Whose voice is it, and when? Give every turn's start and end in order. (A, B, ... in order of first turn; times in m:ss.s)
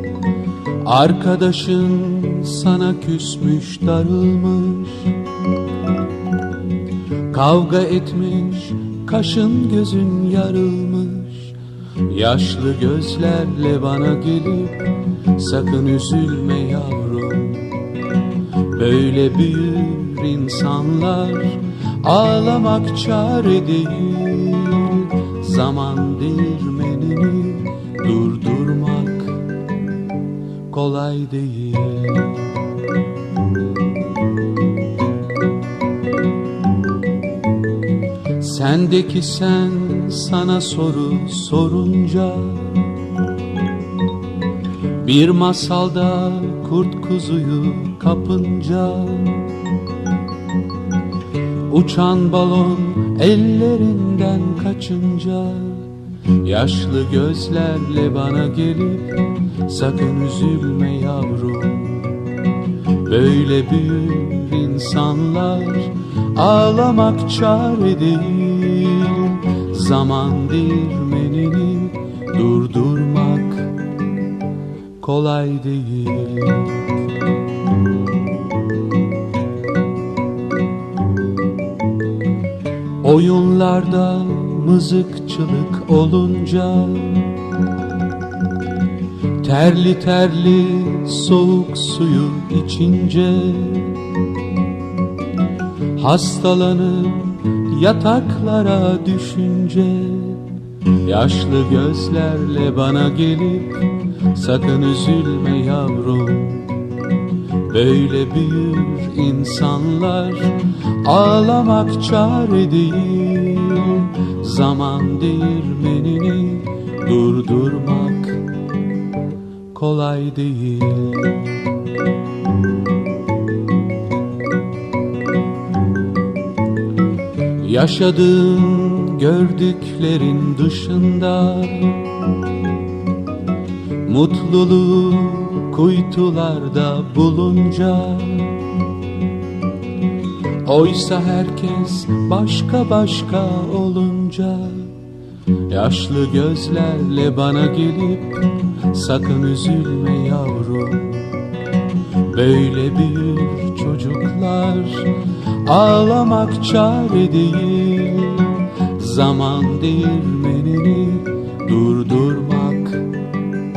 0:00.8-0:05.2 A
0:07.3-0:17.8 A
0:18.6-0:29.4 A
0:30.7-0:32.6 A
0:38.4-0:42.9 A
0:45.0-0:49.5 A
0:51.7-0:55.9 A
0:56.4-1:02.3 A
1:03.0-1:13.8 A
1:15.0-1:16.8 A
1:23.0-1:27.3 A
1:29.4-1:34.0 A
1:35.9-1:40.5 A
1:41.0-1:46.8 A
1:47.7-1:58.5 A
1:59.7-2:01.5 A
2:07.6-2:12.1 A
2:14.0-2:18.6 A
2:20.6-2:24.9 A
2:25.7-2:31.4 A
2:32.2-2:43.1 A